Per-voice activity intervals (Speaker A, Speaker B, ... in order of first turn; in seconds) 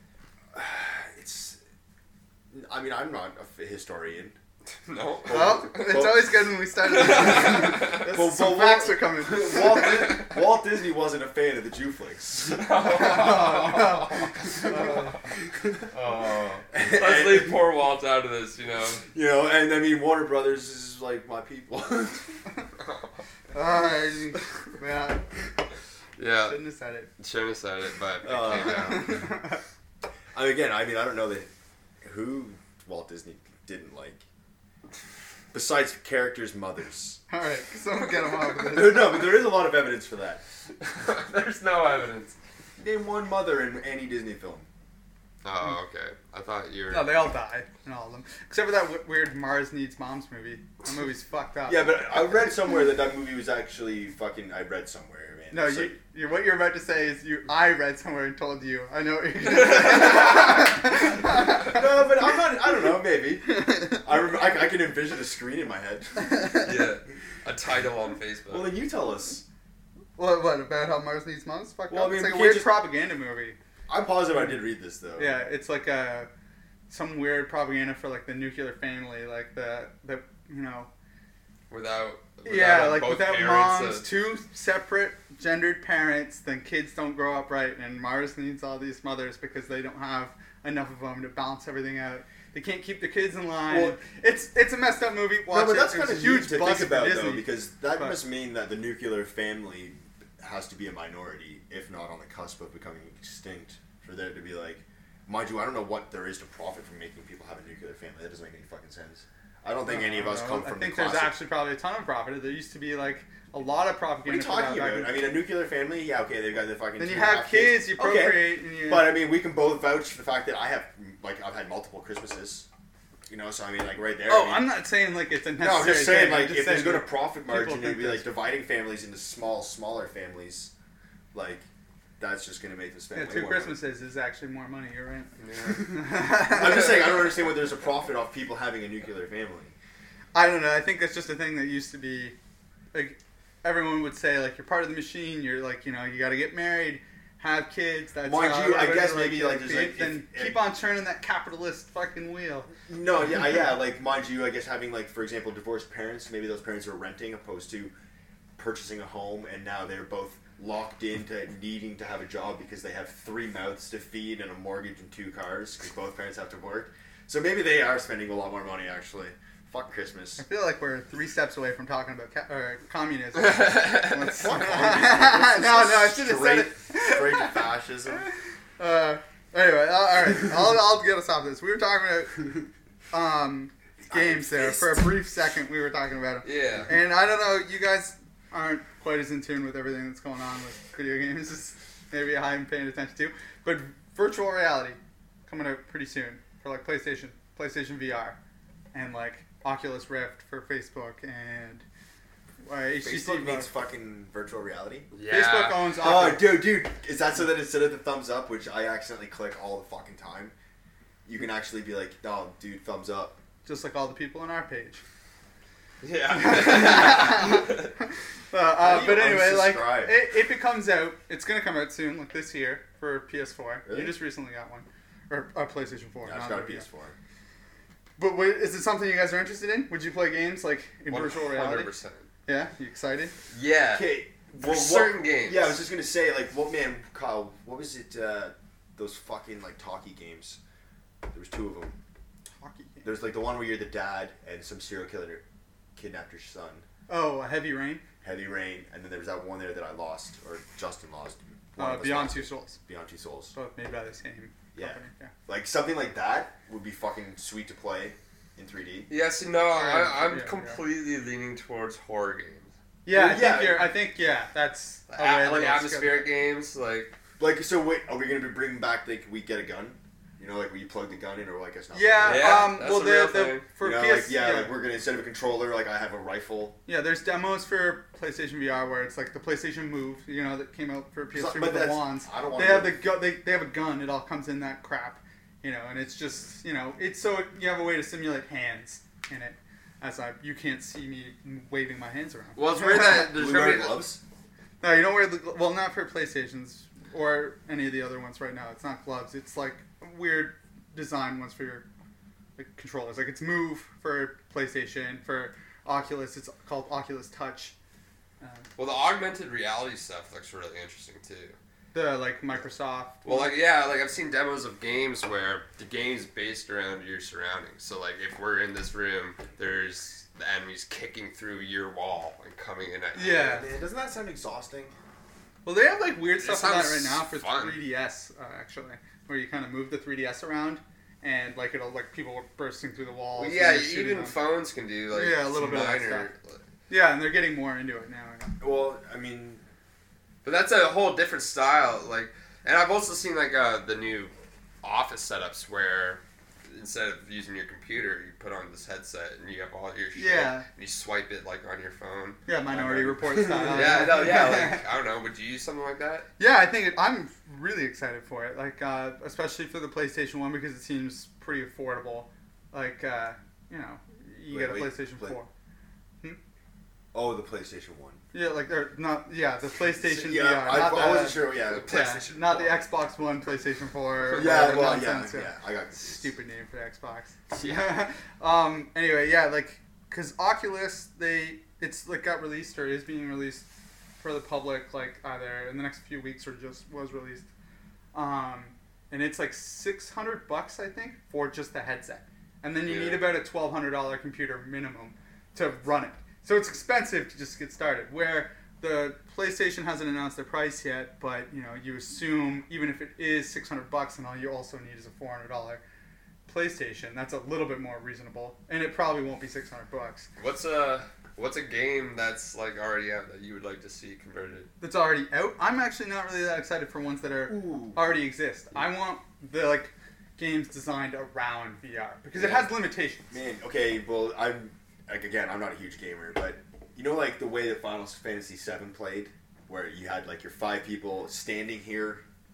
Speaker A: 0.5-1.6, 2.5-4.3, 5.2-6.4, 7.2-12.7, 16.7-17.6, 19.1-22.3, 28.2-29.3, 30.3-31.5, 32.0-34.2, 35.5-37.2, 38.6-40.4, 42.8-44.7, 51.7-56.0, 59.5-66.4, 68.5-69.4, 71.9-72.8, 73.9-75.4, 93.7-94.0, 95.5-111.4, 114.2-122.7, 123.3-124.8, 125.6-130.7, 131.3-131.6, 132.2-133.8, 136.3-139.7, 148.2-150.6, 152.9-157.9, 158.6-170.4, 174.2-178.3, 184.0-185.2, 203.0-205.1, 206.0-210.5, 211.2-213.4, 218.8-220.2, 223.8-224.2, 226.2-227.1, 233.9-240.6, 241.3-241.9, 243.0-245.4, 245.9-246.8, 248.2-253.5, 254.7-259.1, 263.1-263.9, 267.4-272.8, 273.8-276.8, 281.3-283.1, 292.9-294.2, 323.2-324.9, 338.6-339.6, 352.7-354.1, 364.5-365.4, 367.1-368.2, 369.9-372.1, 374.3-376.2, 417.5-418.0, 423.3-432.2
Speaker B: 4.8-6.0, 6.8-8.1, 12.5-15.0, 15.9-19.1, 22.8-23.1, 26.2-26.6, 27.2-29.2, 40.8-42.4, 45.4-47.3, 66.5-68.7, 81.7-84.1, 135.4-135.9, 173.5-174.3, 186.4-186.9, 205.1-205.9, 216.0-217.9, 231.1-232.3, 233.5-235.8, 259.1-262.7, 265.1-267.1, 272.2-273.6, 292.6-294.1, 308.8-311.6, 313.2-323.6, 326.4-327.8, 333.4-336.6, 340.4-352.4, 353.4-356.3, 371.7-372.9, 377.5-378.0, 392.9-393.4, 410.4-414.7, 422.4-422.7
Speaker C: 5.3-9.9, 12.9-15.2, 23.5-25.2, 26.4-27.1, 28.6-29.6, 37.3-39.4, 46.9-51.9, 55.5-61.8, 63.6-64.0, 70.2-73.6, 75.2-76.3, 76.9-80.9, 82.4-98.2, 109.8-115.3, 117.0-119.2, 124.2-128.3, 133.1-137.1, 140.3-142.3, 142.9-152.7, 170.4-177.7, 178.8-182.5, 183.1-198.4, 198.9-201.8, 202.6-203.7, 205.3-206.6, 213.6-215.0, 216.3-217.9, 218.5-226.8, 228.2-231.9, 232.4-233.3, 242.6-243.1, 247.1-248.0, 251.8-252.8, 253.5-255.3, 259.7-260.8, 263.0-266.3, 271.9-274.8, 276.9-293.4, 294.8-301.8, 302.6-307.7, 311.9-313.6, 323.1-323.7, 325.6-334.4, 335.1-336.3, 336.9-338.6, 350.1-350.6, 352.5-354.8, 356.4-365.5, 368.3-383.6, 384.2-387.4, 388.1-405.8, 406.5-410.3, 414.8-423.2